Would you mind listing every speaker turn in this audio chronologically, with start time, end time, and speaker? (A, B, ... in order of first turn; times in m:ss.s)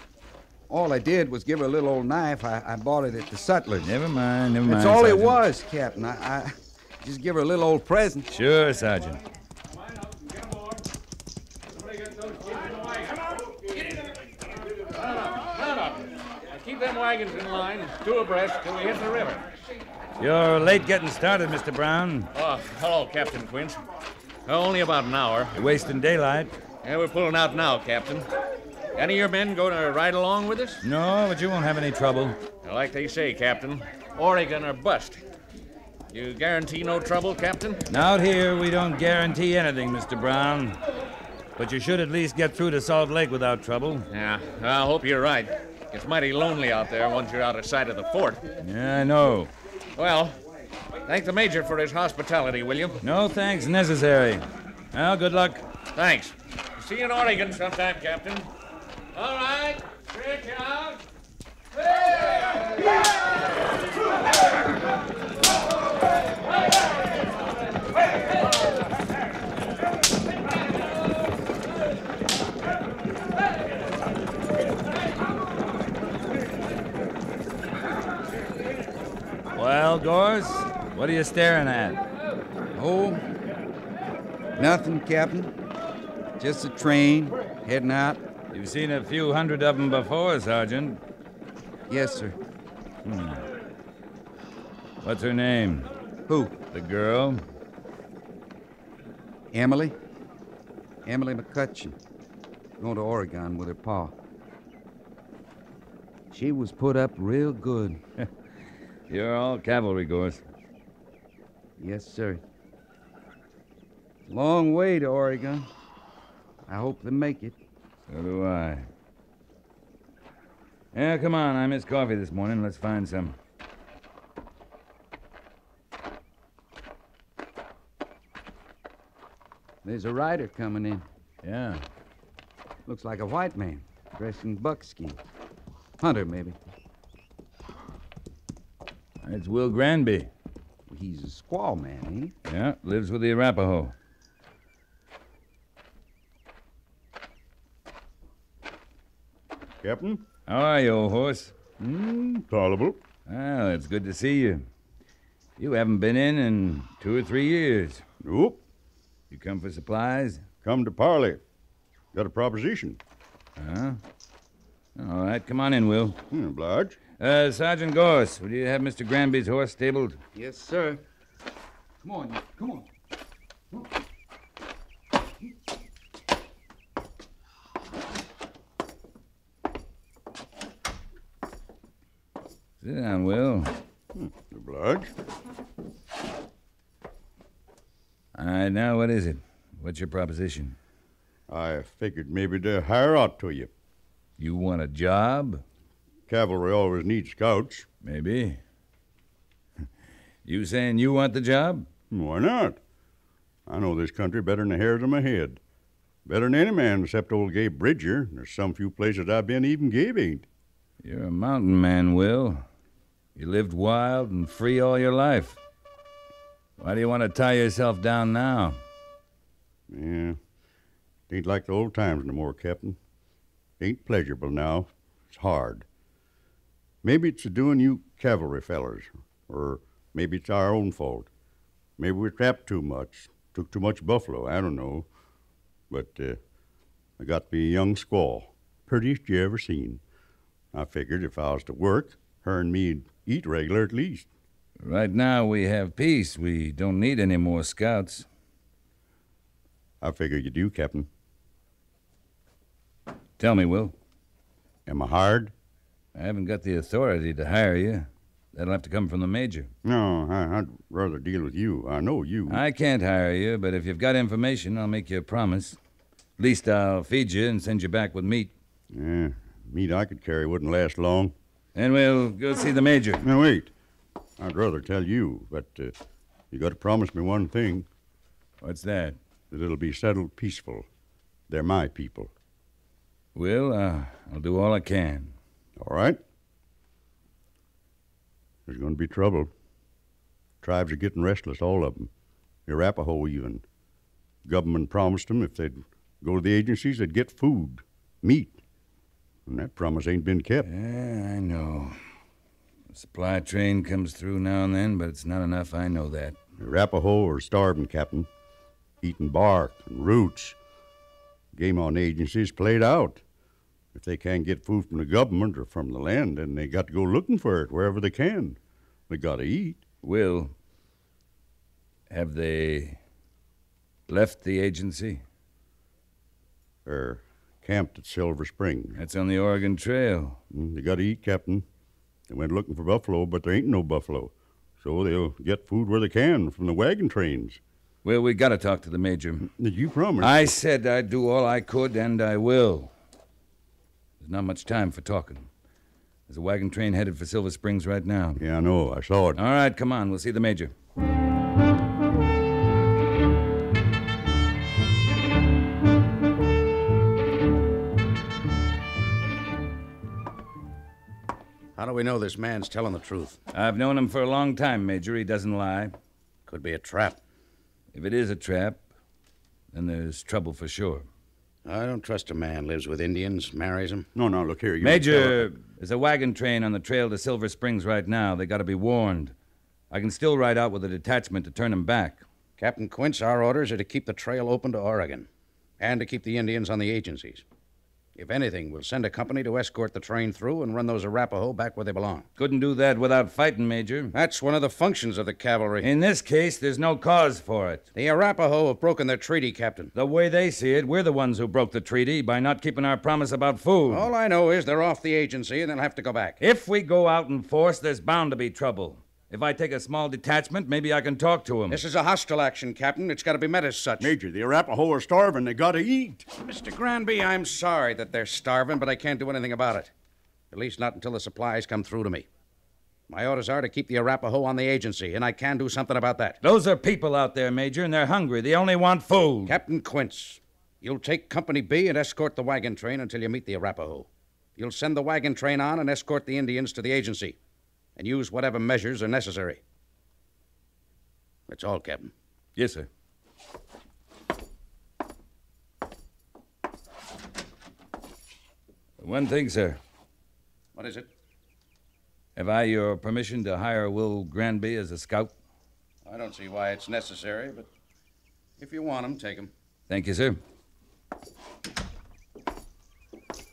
0:00.7-0:03.9 A
0:03.8-0:05.4 B
0:04.7-0:08.3 A
0:08.3-0:09.2 B
0:12.2-0:14.1 C
0:14.9-0:19.5 C
0:20.2-0:22.3 B
0:22.3-0:23.8 C
0:24.5-0:25.5 C
0:25.5-0:26.5 B
0:26.8-0:28.3 C
0:29.0-0:30.8 C
0:30.8-0:32.4 B
0:32.6-0:35.2 C
0:36.1-0:37.8 C
0:37.9-0:40.8 B
0:41.6-0:44.1 B
0:44.1-0:48.4 C
0:48.6-0:49.5 B
0:50.0-0:50.4 C
0:51.1-0:53.0 C
0:53.0-0:55.6 B
0:56.0-0:58.5 C
0:59.1-1:01.0 C
1:02.0-1:02.7 C
1:19.6-1:22.0 B
1:22.7-1:23.2 A
1:24.6-1:25.5 A
1:26.4-1:28.2 A
1:28.5-1:31.0 B
1:31.9-1:32.4 A
1:33.0-1:33.5 B
1:35.0-1:35.9 B
1:36.3-1:36.6 A
1:36.7-1:37.4 B
1:39.5-1:40.0 A
1:41.0-1:42.0 A
1:42.8-1:44.2 A
1:46.3-1:48.0 A
1:49.1-1:50.4 B
1:51.8-1:52.4 A
1:54.3-1:55.7 A
1:56.7-1:57.6 A
1:58.1-1:58.9 B
2:00.9-2:03.4 B
2:09.8-2:11.1 A
2:11.4-2:11.8 B
2:12.8-2:15.2 A
2:16.0-2:16.6 A
2:19.2-2:20.3 B
2:20.9-2:22.4 A
2:22.5-2:23.9 B
2:29.8-2:30.2 D
2:30.5-2:31.6 B
2:31.8-2:33.0 D
2:33.3-2:34.6 B
2:35.6-2:38.0 B
2:38.2-2:38.6 D
2:39.3-2:40.4 B
2:40.6-2:41.4 D
2:42.1-2:43.0 D
2:43.6-2:44.0 B
2:45.0-2:46.2 B
2:46.3-2:47.0 D
2:47.2-2:50.2 B
2:50.4-2:51.0 A
2:52.0-2:52.9 A
3:02.8-3:03.7 B
3:04.2-3:05.1 D
3:08.4-3:10.8 B
3:11.5-3:13.7 D
3:14.4-3:15.6 B
3:16.3-3:17.9 D
3:18.0-3:18.6 B
3:20.4-3:21.9 B
3:22.1-3:22.8 D
3:23.7-3:25.6 D
3:26.2-3:30.5 D
3:31.0-3:32.6 B
3:33.4-3:35.6 B
3:36.8-3:38.8 B
3:39.9-3:40.4 D
3:41.3-3:43.0 D
3:43.8-3:45.9 D
3:47.0-3:51.3 D
3:52.0-3:55.1 D
3:55.9-3:56.4 D
3:57.2-4:00.0 D
4:00.7-4:04.3 D
4:04.8-4:08.3 B
4:10.0-4:11.1 D
4:13.4-4:14.0 B
4:14.9-4:15.5 D
4:16.2-4:19.7 B
4:19.8-4:22.6 D
4:22.5-4:25.8 B
4:26.4-4:28.5 B
4:28.9-4:31.4 D
4:31.8-4:33.2 B
4:33.2-4:33.7 D
4:34.4-4:36.0 D
4:36.5-4:37.9 D
4:38.6-4:39.2 B
4:39.5-4:40.9 D
4:41.5-4:42.3 D
4:43.4-4:45.3 B
4:45.8-4:46.2 D
4:48.7-4:49.5 D
4:50.6-4:52.1 D
4:52.7-4:53.6 D
4:54.4-4:58.6 D
4:59.5-5:00.7 D
5:00.6-5:02.0 B
5:02.9-5:06.4 B
5:06.6-5:08.3 D
5:09.0-5:10.6 D
5:11.5-5:13.2 D
5:13.9-5:19.8 D
5:20.0-5:20.5 B
5:22.1-5:23.0 B
5:24.1-5:25.2 B
5:26.9-5:29.0 D
5:29.0-5:30.4 B
5:30.5-5:31.6 D
5:32.3-5:37.6 D
5:38.0-5:39.5 B
5:39.4-5:40.5 D
5:40.2-5:42.9 B
5:44.2-5:45.5 B
5:46.3-5:48.4 B
5:48.4-5:49.4 D
5:49.4-5:50.7 B
6:01.8-6:03.4 E
6:03.5-6:06.0 B
6:06.5-6:07.2 E
6:07.9-6:08.8 B
6:09.7-6:11.1 B
6:11.6-6:14.1 E
6:14.2-6:15.5 D
6:14.8-6:19.4 B
6:19.9-6:22.2 B
6:22.6-6:25.3 E
6:25.8-6:27.4 E
6:28.2-6:32.3 E
6:32.4-6:34.1 B
6:34.1-6:35.9 E
6:35.8-6:37.9 B
6:38.0-6:39.9 E
6:40.0-6:44.1 B
6:43.9-6:46.4 E
6:46.4-6:51.8 B
6:51.7-6:54.1 E
6:54.0-6:56.3 D
6:56.4-6:59.9 E
7:00.5-7:02.3 E
7:03.1-7:06.4 E
7:06.4-7:09.6 B
7:09.5-7:17.4 E
7:18.0-7:19.6 E
7:21.5-7:22.1 E
7:22.6-7:22.9 B
7:29.0-7:29.8 B
7:30.8-7:31.1 E
7:32.4-7:35.3 B
7:36.1-7:37.7 E
7:38.6-7:39.5 E
7:39.9-7:40.4 B